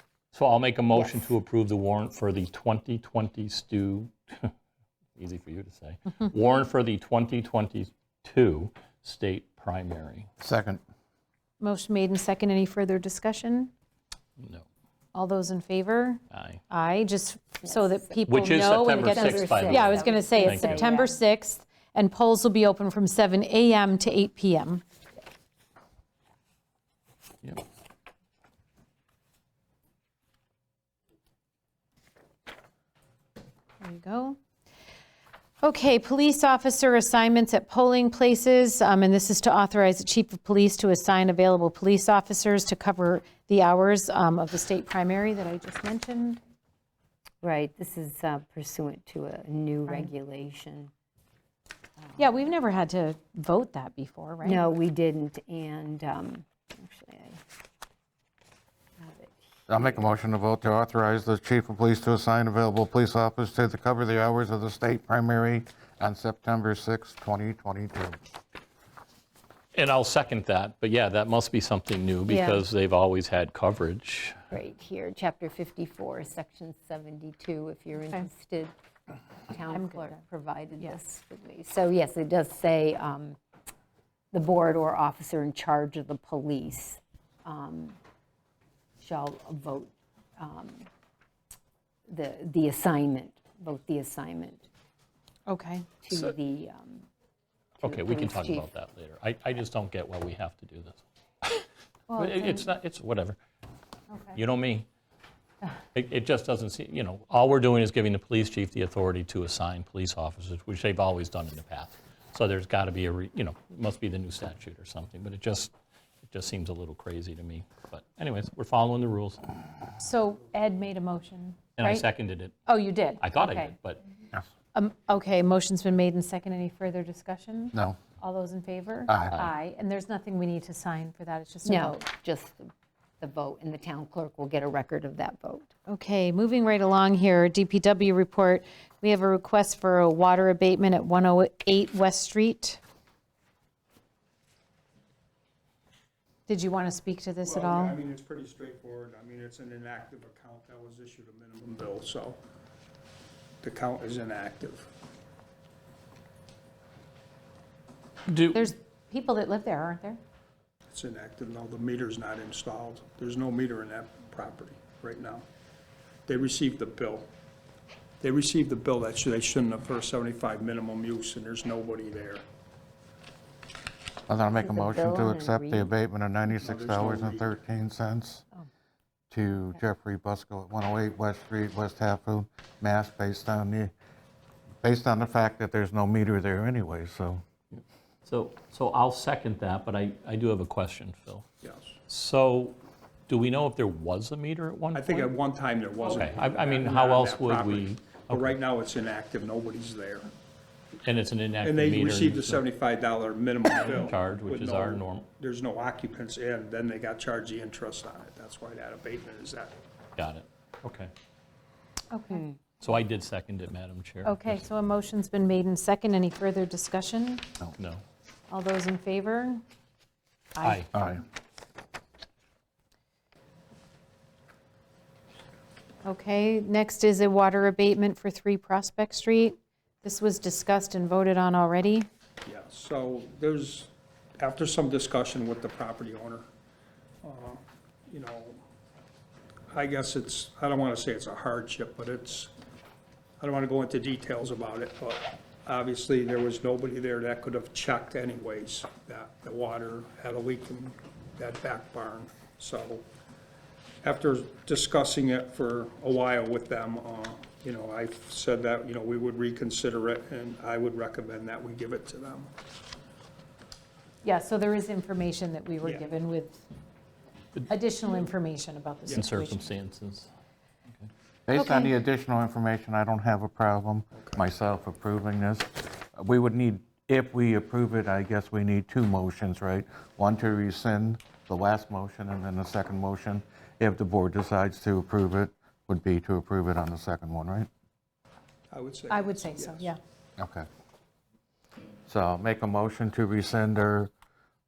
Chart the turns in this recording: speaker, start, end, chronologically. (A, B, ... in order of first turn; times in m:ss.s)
0:00.3-0:04.5 A
0:00.9-0:01.2 B
0:05.2-0:10.3 A
0:10.4-0:10.8 C
0:11.6-0:13.7 D
0:14.4-0:14.6 A
0:15.1-0:24.8 D
0:16.3-0:16.6 A
0:17.6-0:21.2 B
0:18.3-0:20.8 A
0:33.8-0:34.4 D
0:35.6-0:46.4 D
0:47.4-0:50.9 B
0:52.2-0:54.6 D
0:54.4-0:57.4 B
0:59.0-1:00.1 B
0:59.7-1:08.2 C
1:09.7-1:14.4 A
1:12.3-1:12.6 B
1:14.5-1:18.7 B
1:19.5-1:23.4 B
1:19.7-1:20.2 D
1:24.3-1:28.0 B
1:29.0-1:30.9 B
1:32.1-1:34.7 B
1:35.5-1:35.9 D
1:36.0-1:37.1 B
1:37.8-1:43.4 A
1:37.8-1:38.6 B
1:42.1-1:42.7 D
1:44.1-1:44.4 D
1:44.3-1:44.9 A
1:45.9-1:55.7 A
1:56.3-1:59.5 A
2:00.0-2:02.0 D
2:01.8-2:02.6 A
2:02.6-2:03.3 D
2:03.2-2:04.0 A
2:03.4-2:03.7 B
2:04.7-2:12.0 D
2:09.1-2:09.5 C
2:11.6-2:15.7 B
2:15.9-2:22.8 D
2:26.5-2:28.0 D
2:27.4-2:32.4 E
2:33.6-2:34.9 E
2:38.3-2:38.7 A
2:38.5-2:40.2 D
2:40.9-2:45.4 E
2:46.2-2:47.3 E
2:48.2-2:52.4 E
2:54.3-2:58.4 C
2:54.5-2:55.9 B
2:56.5-2:57.5 E
2:59.3-3:03.9 C
3:04.8-3:07.4 C
3:07.7-3:11.5 A
3:11.6-3:12.0 E
3:12.1-3:15.3 A
3:14.9-3:20.3 E
3:16.0-3:18.6 A
3:21.0-3:22.6 A
3:21.6-3:29.7 E
3:23.7-3:25.3 A
3:30.2-3:31.1 A
3:32.1-3:32.4 D
3:32.3-3:32.6 B
3:32.8-3:34.6 A
3:34.2-3:37.5 D
3:37.8-3:38.0 A
3:38.5-3:39.6 D
3:40.5-3:40.8 D
3:40.6-3:40.9 A
3:40.9-3:41.2 C
3:46.0-3:52.1 D
3:52.4-3:56.5 E
3:57.2-3:58.6 E
3:59.7-4:02.5 E
4:03.4-4:13.0 E
4:14.0-4:22.5 E
4:24.2-4:26.6 D
4:25.8-4:26.1 E
4:27.7-4:29.6 D
4:29.0-4:29.3 E
4:29.1-4:30.3 A
4:31.5-4:47.7 C
4:31.5-4:31.9 D
4:34.2-4:34.4 E
4:48.7-4:49.9 E
4:49.1-4:50.0 D
4:50.4-4:50.7 C
4:52.1-4:54.1 C